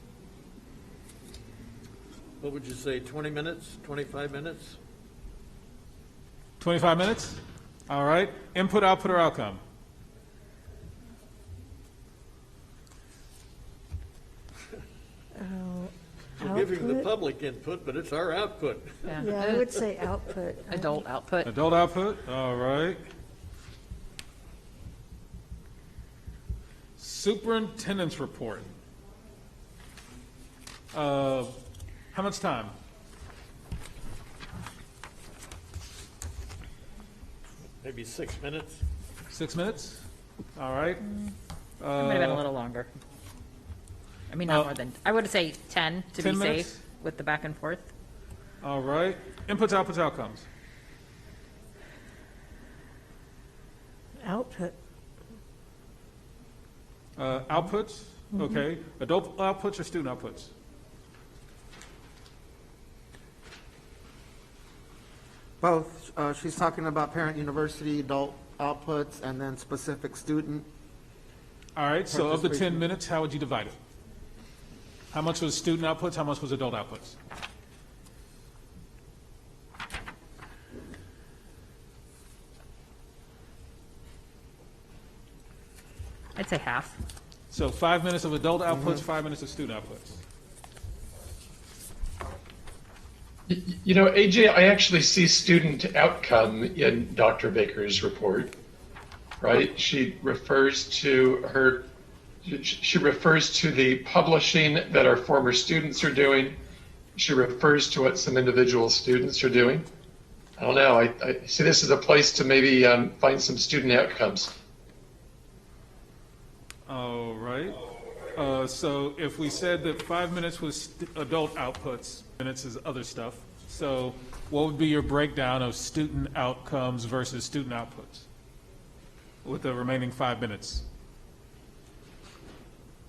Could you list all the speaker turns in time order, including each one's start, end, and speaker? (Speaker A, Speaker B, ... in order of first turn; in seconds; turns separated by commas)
Speaker A: 2.4-4.8, Speaker B: 6.6-9.6, Speaker C: 15.3-17.1, Speaker A: 16.4-19.2, Speaker D: 19.1-19.7, Speaker C: 19.2-21.0, Speaker D: 20.7-21.5, Speaker B: 21.4-23.0, Speaker B: 27.0-28.8, Speaker B: 30.9-31.5, Speaker B: 32.1-32.7, Speaker A: 37.8-38.8, Speaker B: 39.3-40.0, Speaker B: 40.6-41.0, Speaker B: 41.8-42.4, Speaker D: 42.0-42.9, Speaker D: 44.3-47.9, Speaker B: 44.4-44.7, Speaker B: 46.2-46.8, Speaker B: 48.6-50.5, Speaker C: 54.2-54.7, Speaker B: 57.2-60.5, Speaker E: 65.6-70.7, Speaker B: 71.8-73.8, Speaker E: 72.1-72.8, Speaker B: 75.1-77.2, Speaker D: 86.3-86.9, Speaker B: 87.5-90.2, Speaker E: 88.7-89.0, Speaker F: 93.5-98.5, Speaker F: 99.4-101.8, Speaker F: 102.4-106.6, Speaker F: 107.1-109.9, Speaker F: 110.6-114.5, Speaker B: 116.9-117.8, Speaker B: 118.3-128.3, Speaker B: 129.4-130.8